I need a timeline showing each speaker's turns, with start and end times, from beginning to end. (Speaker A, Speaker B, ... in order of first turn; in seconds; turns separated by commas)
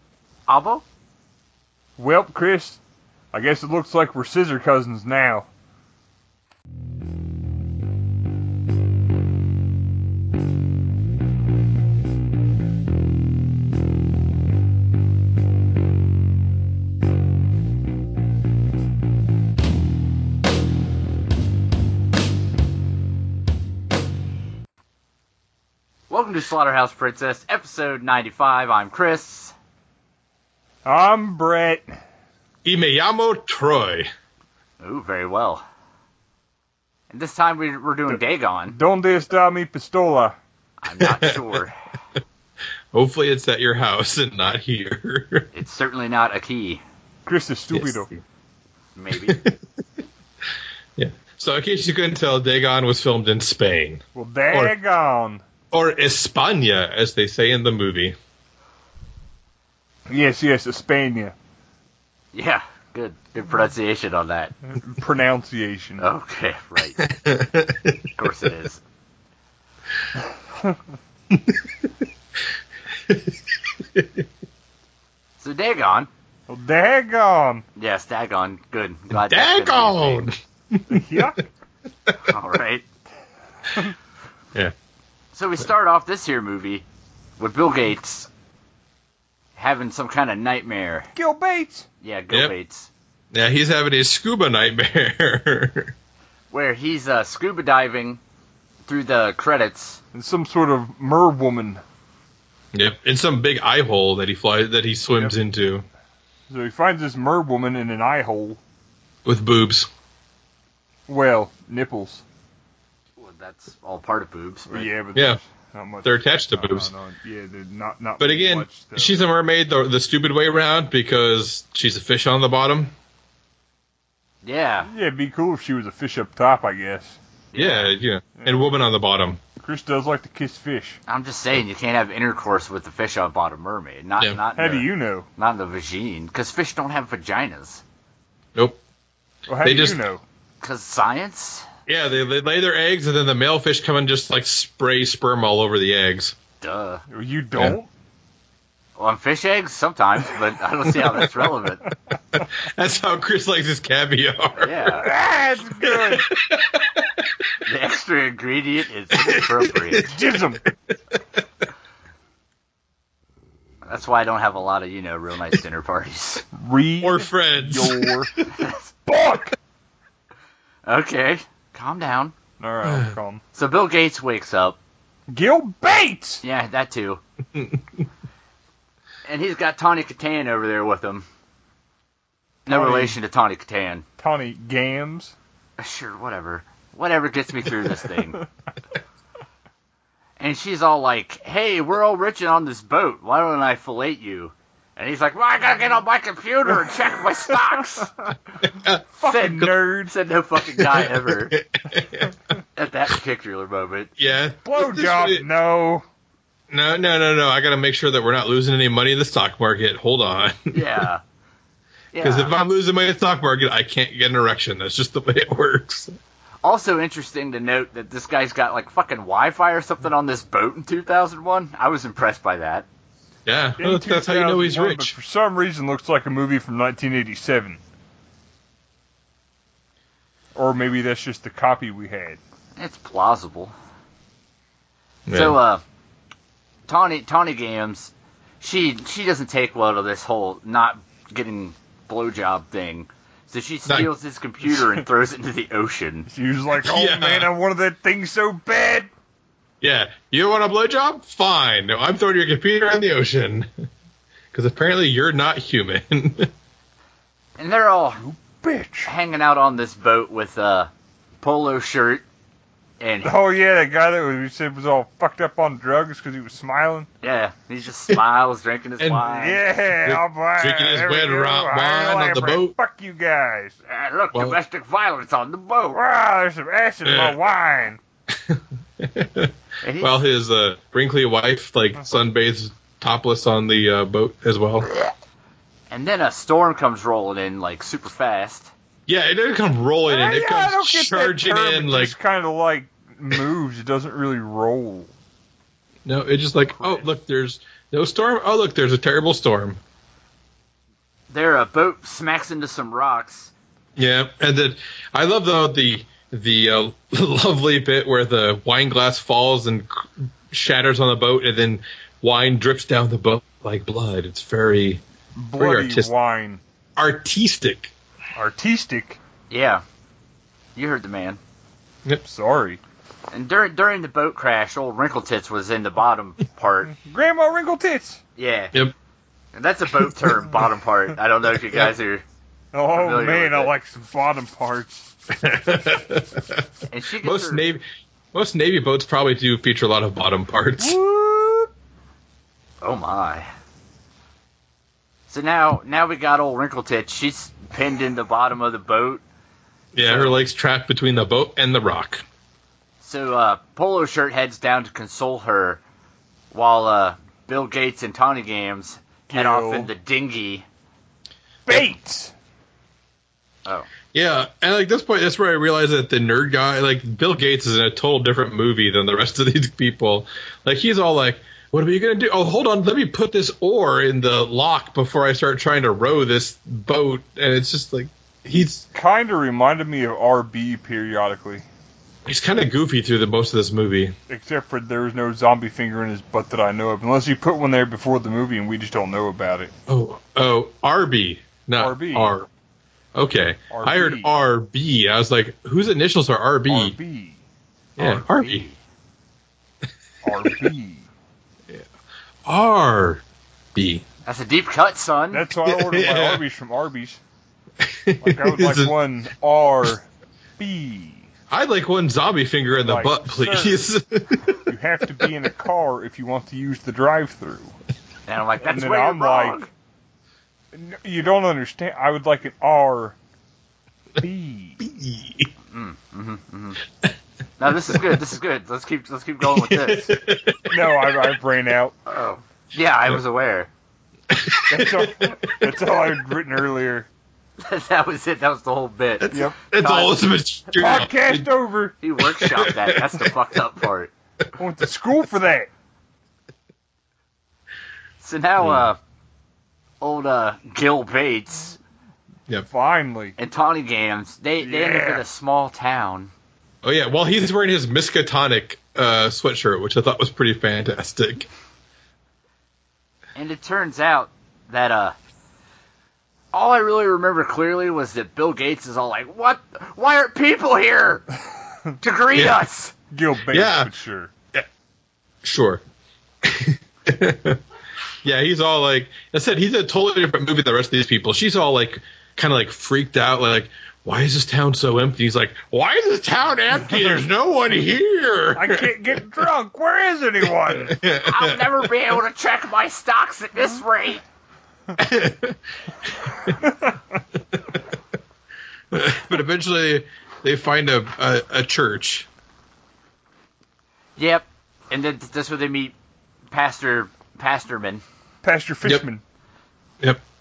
Speaker A: 0.5-0.8, Speaker B: 2.0-2.8, Speaker B: 3.3-5.5, Speaker A: 26.1-29.5, Speaker B: 30.9-31.9, Speaker C: 32.6-34.1, Speaker A: 34.8-35.6, Speaker A: 37.1-38.8, Speaker B: 38.1-40.4, Speaker A: 40.8-41.9, Speaker C: 41.0-41.5, Speaker C: 42.9-45.5, Speaker A: 45.5-46.8, Speaker B: 47.3-48.1, Speaker C: 47.7-48.2, Speaker A: 49.0-49.4, Speaker C: 49.3-49.6, Speaker C: 51.0-54.8, Speaker B: 54.1-55.4, Speaker C: 55.7-58.2, Speaker B: 60.1-61.4, Speaker A: 62.3-64.5, Speaker B: 64.8-66.1, Speaker A: 66.0-67.0, Speaker C: 67.0-68.0, Speaker A: 68.2-68.8, Speaker C: 71.3-71.7, Speaker C: 73.1-74.2, Speaker A: 75.4-76.1, Speaker B: 76.5-77.7, Speaker A: 77.8-80.3, Speaker C: 79.1-81.3, Speaker B: 80.9-81.4, Speaker A: 82.2-82.9, Speaker A: 85.3-86.9, Speaker A: 87.4-88.3, Speaker A: 89.6-91.1, Speaker B: 91.2-91.9, Speaker A: 92.0-92.9, Speaker C: 93.3-95.9, Speaker A: 96.5-98.2, Speaker A: 98.9-100.0, Speaker B: 100.1-101.8, Speaker C: 102.7-105.9, Speaker B: 106.5-108.6, Speaker C: 109.2-109.9, Speaker B: 111.1-112.2, Speaker A: 113.2-114.9, Speaker B: 114.7-119.2, Speaker C: 116.0-116.9, Speaker C: 118.2-122.9, Speaker A: 124.4-124.9, Speaker B: 124.9-127.2, Speaker A: 127.5-127.9, Speaker C: 127.5-129.4, Speaker B: 128.4-128.8, Speaker B: 129.6-131.0, Speaker A: 131.1-137.8, Speaker B: 134.6-135.3, Speaker C: 138.6-138.8, Speaker B: 139.5-140.2, Speaker C: 139.6-140.0, Speaker A: 140.6-141.7, Speaker C: 141.9-146.4, Speaker A: 146.6-147.0, Speaker B: 147.1-147.9, Speaker A: 149.0-151.9, Speaker C: 152.3-154.9, Speaker A: 154.6-155.1, Speaker B: 155.0-156.3, Speaker C: 155.8-157.5, Speaker A: 157.7-160.1, Speaker C: 159.2-160.1, Speaker B: 160.1-160.7, Speaker C: 161.1-161.4, Speaker A: 163.8-166.4, Speaker B: 166.6-168.4, Speaker C: 167.0-168.5, Speaker B: 169.1-169.5, Speaker A: 170.9-172.3, Speaker B: 172.6-173.4, Speaker C: 172.9-173.1, Speaker A: 173.5-174.8, Speaker B: 175.3-176.4, Speaker A: 176.4-177.2, Speaker C: 177.6-178.0, Speaker A: 179.3-181.3, Speaker B: 182.7-183.2, Speaker A: 182.7-184.1, Speaker B: 184.2-185.3, Speaker A: 185.8-188.4, Speaker A: 190.4-198.1, Speaker C: 198.7-199.0, Speaker B: 199.2-200.1, Speaker A: 199.2-201.6, Speaker C: 200.8-202.3, Speaker A: 202.8-204.1, Speaker C: 204.2-205.4, Speaker B: 204.6-206.1, Speaker C: 206.7-211.0, Speaker A: 210.7-211.2, Speaker A: 212.1-212.5, Speaker C: 212.2-216.1, Speaker A: 216.6-222.9, Speaker C: 223.5-225.1, Speaker B: 223.8-227.8, Speaker B: 230.6-232.4, Speaker A: 232.8-233.8, Speaker C: 235.3-235.6, Speaker A: 235.3-235.8, Speaker A: 236.9-246.3, Speaker B: 244.7-245.0, Speaker B: 246.3-249.1, Speaker C: 246.8-247.5, Speaker C: 249.8-253.7, Speaker C: 254.5-256.5, Speaker A: 257.6-258.2, Speaker B: 258.2-259.1, Speaker A: 259.1-260.9, Speaker A: 261.4-262.2, Speaker A: 263.0-263.3, Speaker B: 263.2-267.1, Speaker A: 267.2-269.6, Speaker C: 269.0-269.3, Speaker B: 269.3-273.8, Speaker C: 270.0-272.7, Speaker A: 273.9-276.0, Speaker B: 275.9-278.0, Speaker C: 277.1-277.4, Speaker C: 278.3-284.9, Speaker A: 279.8-280.2, Speaker A: 285.9-288.7, Speaker C: 289.1-292.1, Speaker B: 290.1-295.1, Speaker C: 296.1-299.8, Speaker A: 301.3-303.5, Speaker C: 304.0-315.0, Speaker B: 315.4-316.6, Speaker C: 315.6-316.1, Speaker C: 317.0-317.9, Speaker B: 318.4-319.2, Speaker A: 319.5-319.8, Speaker A: 320.8-321.4, Speaker B: 322.2-322.8, Speaker A: 323.3-326.9, Speaker B: 327.0-328.2, Speaker A: 328.4-328.7, Speaker A: 329.5-332.2, Speaker B: 332.7-335.1, Speaker A: 332.9-333.7, Speaker C: 335.3-336.6, Speaker A: 336.9-337.6, Speaker C: 337.2-341.0, Speaker B: 340.8-341.7, Speaker A: 342.8-343.5, Speaker A: 345.3-349.2, Speaker C: 349.9-352.2, Speaker A: 350.0-350.4, Speaker A: 353.0-355.8, Speaker A: 356.5-360.7, Speaker B: 359.3-359.9, Speaker B: 361.7-362.3, Speaker C: 364.1-378.9, Speaker B: 378.9-381.7, Speaker C: 382.3-384.1, Speaker B: 384.3-389.7, Speaker C: 389.9-392.5, Speaker B: 391.8-392.3, Speaker C: 393.1-397.0, Speaker B: 393.7-394.3, Speaker B: 396.7-397.4, Speaker B: 398.0-398.2, Speaker C: 398.0-398.6, Speaker A: 398.2-398.8, Speaker B: 400.2-401.1, Speaker C: 402.5-403.2, Speaker C: 403.8-404.1, Speaker A: 404.3-405.5, Speaker B: 405.3-407.2, Speaker C: 405.6-406.4, Speaker C: 407.8-408.9, Speaker B: 408.2-410.1, Speaker B: 410.6-411.3, Speaker C: 411.5-414.6, Speaker B: 412.8-413.8, Speaker B: 414.7-417.8, Speaker A: 418.3-419.7, Speaker B: 418.6-419.6, Speaker B: 420.7-423.2, Speaker B: 424.2-424.8, Speaker C: 424.8-425.5, Speaker A: 425.7-426.8, Speaker A: 427.6-430.1, Speaker C: 427.9-428.2, Speaker C: 429.4-431.3, Speaker B: 430.7-432.0, Speaker A: 432.1-433.7, Speaker C: 434.3-435.7, Speaker B: 434.7-437.1, Speaker A: 437.6-440.2, Speaker B: 439.3-439.6, Speaker C: 439.3-441.5, Speaker B: 440.7-442.0, Speaker A: 442.0-444.1, Speaker C: 442.2-443.3, Speaker B: 444.6-445.7, Speaker A: 448.2-449.0, Speaker C: 448.6-448.9, Speaker A: 450.0-451.8, Speaker B: 452.7-453.4, Speaker A: 453.4-456.3, Speaker B: 454.6-455.2, Speaker C: 456.8-461.5, Speaker A: 463.4-465.2, Speaker A: 466.5-471.3, Speaker A: 472.0-472.9, Speaker B: 473.1-474.3, Speaker C: 473.5-473.9, Speaker C: 475.4-475.8, Speaker C: 476.4-477.6, Speaker C: 478.2-488.9, Speaker B: 488.5-491.0, Speaker C: 490.8-491.9, Speaker A: 491.2-494.2, Speaker C: 495.0-496.6, Speaker C: 498.9-502.3, Speaker A: 504.2-505.9, Speaker A: 506.5-508.0, Speaker B: 508.4-509.2